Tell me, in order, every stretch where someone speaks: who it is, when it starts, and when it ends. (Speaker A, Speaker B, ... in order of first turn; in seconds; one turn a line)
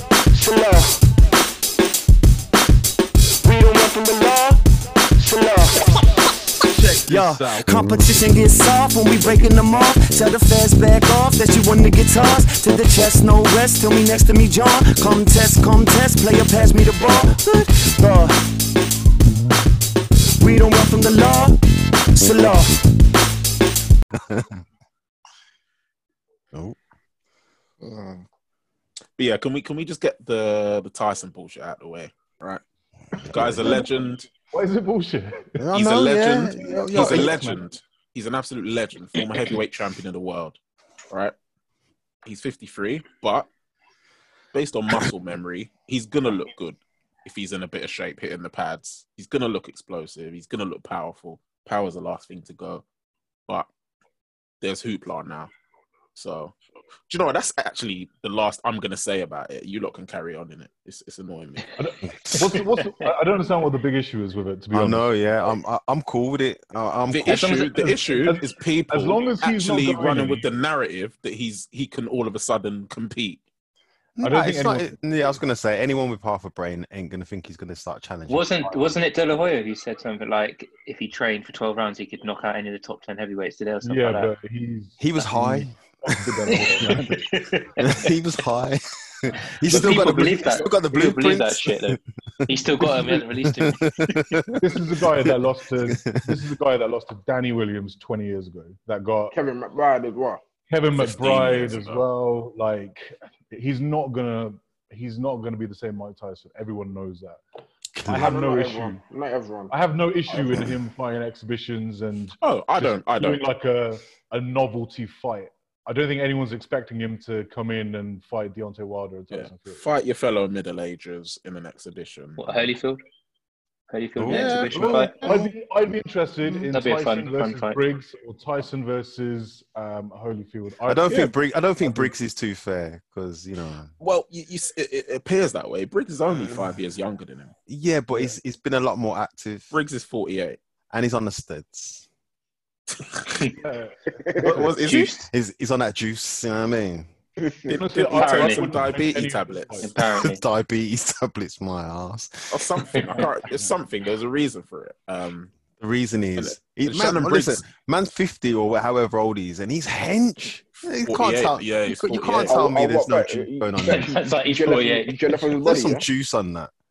Speaker A: 0.3-1.0
Speaker A: 3.4-4.6
Speaker A: 5.2-6.0
Speaker B: 6.7-7.7
Speaker A: 6.9-18.5
Speaker A: 20.4-21.6
Speaker A: 22.1-22.8
Speaker C: 24.1-24.6
Speaker C: 26.5-26.8
Speaker C: 27.8-28.2
Speaker D: 29.2-32.6
Speaker D: 33.2-34.3
Speaker C: 33.3-33.8
Speaker B: 34.5-35.6
Speaker C: 35.6-37.6
Speaker D: 35.7-40.6
Speaker B: 36.6-37.6
Speaker D: 42.2-43.5
Speaker D: 44.5-52.8
Speaker D: 54.6-55.5
Speaker D: 56.1-56.6
Speaker D: 57.1-61.8
Speaker B: 61.8-65.1
Speaker C: 64.7-67.6
Speaker D: 67.1-73.4
Speaker E: 67.3-67.9
Speaker B: 67.8-70.5
Speaker C: 74.2-79.0
Speaker B: 74.2-74.9
Speaker E: 78.3-84.3
Speaker B: 83.8-87.3
Speaker C: 85.0-87.1
Speaker E: 86.5-88.1
Speaker C: 87.8-95.3
Speaker E: 89.6-94.4
Speaker B: 94.6-99.4
Speaker C: 95.8-96.4
Speaker F: 99.3-100.4
Speaker B: 100.7-107.4
Speaker D: 101.0-102.0
Speaker C: 108.0-108.4
Speaker B: 108.1-109.0
Speaker F: 108.2-109.7
Speaker B: 109.7-119.8
Speaker D: 112.4-113.4
Speaker D: 119.3-122.7
Speaker E: 122.4-123.0
Speaker E: 123.9-125.3
Speaker C: 124.2-125.5
Speaker D: 124.3-124.7
Speaker B: 124.5-132.1
Speaker E: 126.6-127.8
Speaker C: 130.9-133.9
Speaker D: 131.1-131.3
Speaker D: 134.0-137.5
Speaker C: 137.7-139.8
Speaker D: 139.7-140.6
Speaker C: 140.9-142.1
Speaker D: 143.0-143.5
Speaker B: 143.6-144.0
Speaker F: 144.3-144.6
Speaker D: 144.4-145.1
Speaker E: 144.8-145.3
Speaker C: 145.3-147.1
Speaker F: 147.4-147.8
Speaker D: 147.7-149.9
Speaker B: 147.7-149.9
Speaker E: 148.0-148.8
Speaker E: 149.8-150.4
Speaker C: 150.2-152.8
Speaker D: 152.5-155.5
Speaker E: 153.0-153.2
Speaker C: 155.8-164.4
Speaker D: 156.4-157.6
Speaker D: 161.0-162.6
Speaker F: 162.5-166.1
Speaker E: 163.8-165.2
Speaker C: 165.3-166.7